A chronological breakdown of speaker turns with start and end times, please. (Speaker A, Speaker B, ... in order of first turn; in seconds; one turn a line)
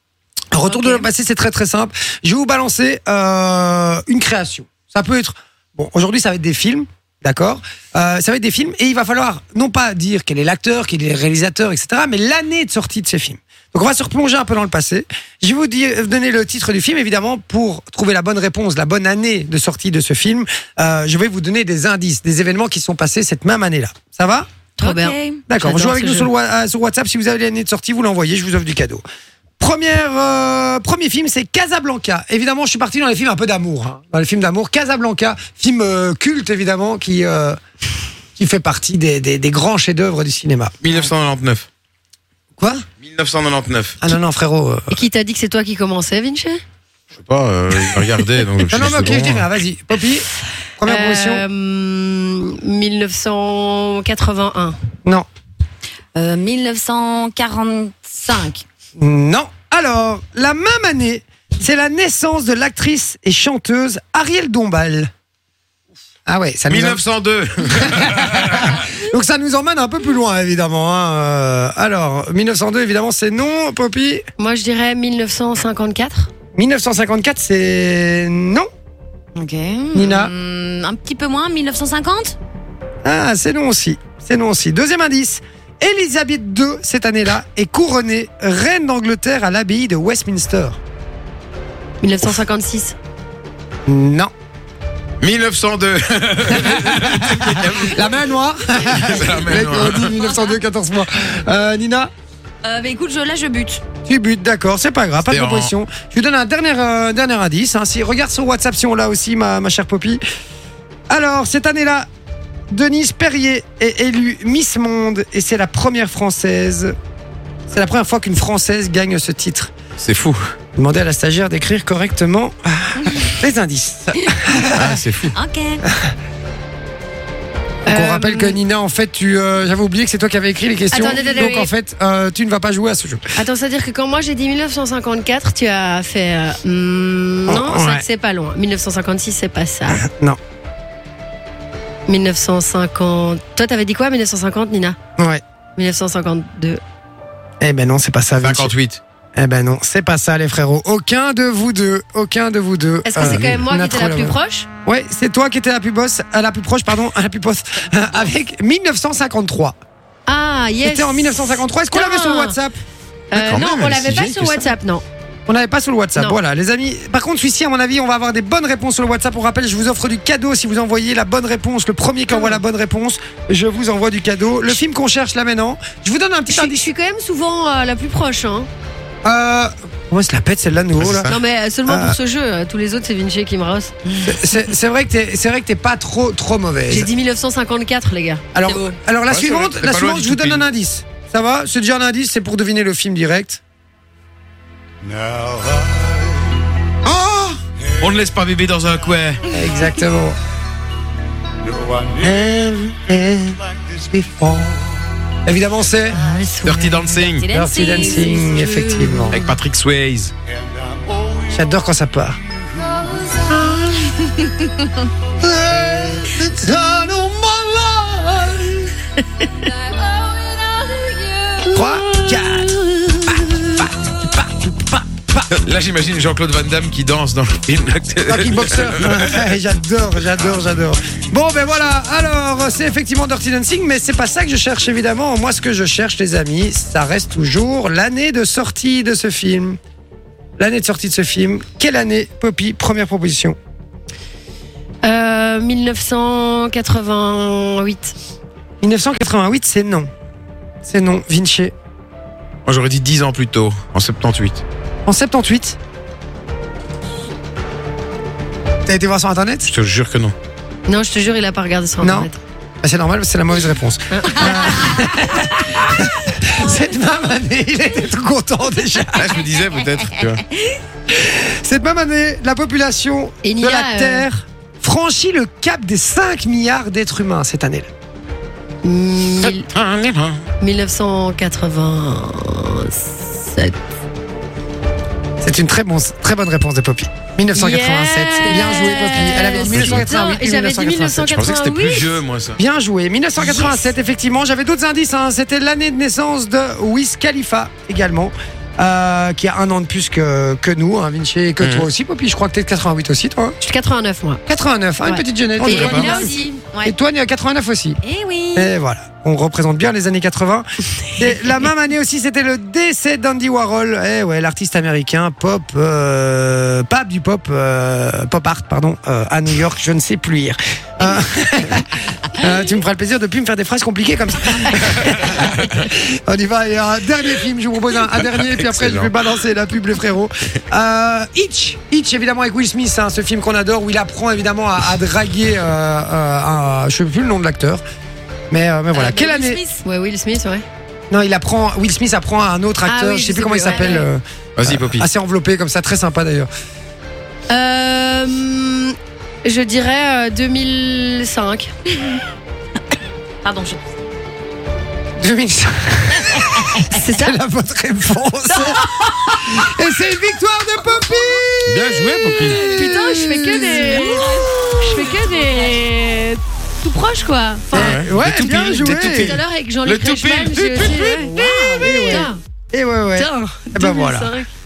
Speaker A: 0.5-24.5
Speaker B: 0.6-1.1
Speaker C: 24.8-26.3
Speaker B: 24.8-25.4
Speaker A: 25.5-29.0
Speaker A: 29.6-37.6
Speaker A: 38.4-40.7
Speaker D: 40.8-41.7
Speaker A: 42.6-42.9
Speaker D: 43.0-44.0
Speaker A: 44.0-45.0
Speaker C: 44.9-46.6
Speaker D: 47.1-49.5
Speaker A: 48.7-51.5
Speaker C: 50.9-54.8
Speaker B: 56.2-58.6
Speaker A: 59.0-65.1
Speaker A: 66.3-67.0
Speaker D: 66.7-68.8
Speaker A: 67.8-74.2
Speaker C: 74.4-76.3
Speaker A: 76.5-78.7
Speaker B: 79.3-82.4
Speaker A: 79.9-80.3
Speaker A: 83.0-90.8
Speaker C: 92.0-93.0
Speaker A: 93.9-94.3
Speaker D: 95.2-98.2
Speaker A: 96.5-102.1
Speaker D: 98.8-100.2
Speaker B: 102.6-103.8
Speaker A: 104.1-110.2
Speaker D: 105.3-105.8
Speaker A: 111.1-112.1
Speaker A: 112.7-117.0
Speaker A: 117.7-119.7
Speaker D: 120.0-120.4
Speaker A: 120.8-125.0
Speaker D: 124.7-125.4
Speaker B: 125.3-125.8
Speaker C: 127.9-128.6
Speaker A: 127.9-133.2
Speaker C: 130.9-131.7
Speaker C: 133.4-140.0
Speaker A: 137.5-138.1
Speaker A: 140.0-140.4
Speaker C: 142.1-145.0
Speaker C: 145.8-146.8
Speaker A: 147.6-148.7
Speaker D: 148.4-149.0
Speaker A: 149.4-159.8
Speaker C: 153.1-154.7
Speaker D: 153.2-153.6
Speaker C: 160.3-162.6
Speaker A: 160.8-162.8
Speaker C: 163.3-165.0
Speaker D: 163.3-164.6
Speaker A: 165.5-176.9
Speaker C: 176.5-178.7
Speaker A: 179.2-181.3
Speaker D: 181.0-181.4
Speaker C: 181.3-183.9
Speaker A: 181.9-182.2
Speaker A: 184.2-187.1
Speaker C: 186.9-188.9
Speaker A: 188.5-193.6
Speaker D: 189.3-190.7
Speaker D: 197.1-199.4
Speaker A: 199.5-200.4
Speaker A: 202.0-206.2
Speaker C: 206.2-207.3
Speaker D: 206.6-207.5
Speaker B: 207.3-208.6
Speaker A: 207.5-209.4
Speaker C: 207.9-209.5
Speaker D: 209.3-210.3
Speaker A: 211.5-212.4
Speaker B: 214.6-214.8
Speaker A: 215.4-218.9
Speaker B: 219.9-221.6
Speaker A: 221.6-225.5
Speaker D: 225.5-229.4
Speaker A: 228.3-239.8
Speaker A: 240.6-243.6
Speaker C: 245.0-248.2
Speaker A: 248.8-250.1
Speaker A: 250.8-251.7
Speaker D: 252.7-254.6
Speaker A: 255.1-255.8
Speaker A: 258.9-259.7
Speaker D: 259.7-260.3
Speaker C: 260.9-262.4
Speaker A: 262.0-262.3
Speaker A: 262.8-269.4
Speaker C: 264.1-264.9
Speaker C: 266.6-266.9
Speaker D: 269.1-270.4
Speaker A: 271.1-277.9
Speaker C: 273.4-274.3
Speaker C: 278.8-279.7
Speaker D: 279.4-280.4
Speaker C: 280.6-283.8
Speaker A: 285.4-291.4
Speaker C: 287.5-292.2
Speaker D: 289.5-290.1
Speaker D: 291.3-292.6
Speaker A: 292.6-303.6
Speaker D: 301.6-301.9
Speaker C: 303.6-304.4
Speaker A: 304.5-308.0
Speaker C: 305.0-306.5
Speaker B: 305.6-306.9
Speaker D: 305.6-306.0
Speaker B: 308.0-308.7
Speaker A: 308.5-337.8
Speaker D: 328.1-329.1
Speaker A: 338.5-339.6
Speaker B: 338.9-339.8
Speaker C: 339.8-340.6
Speaker A: 341.1-346.5
Speaker C: 342.9-344.1
Speaker D: 344.6-345.1
Speaker C: 347.5-351.7
Speaker B: 353.4-353.8
Speaker A: 355.2-364.1
Speaker C: 356.9-357.4
Speaker D: 361.7-362.8
Speaker C: 362.3-372.4
Speaker B: 363.5-365.8
Speaker A: 367.7-369.4
Speaker D: 367.7-371.2
Speaker B: 370.9-372.3
Speaker A: 371.8-374.4
Speaker C: 373.1-374.5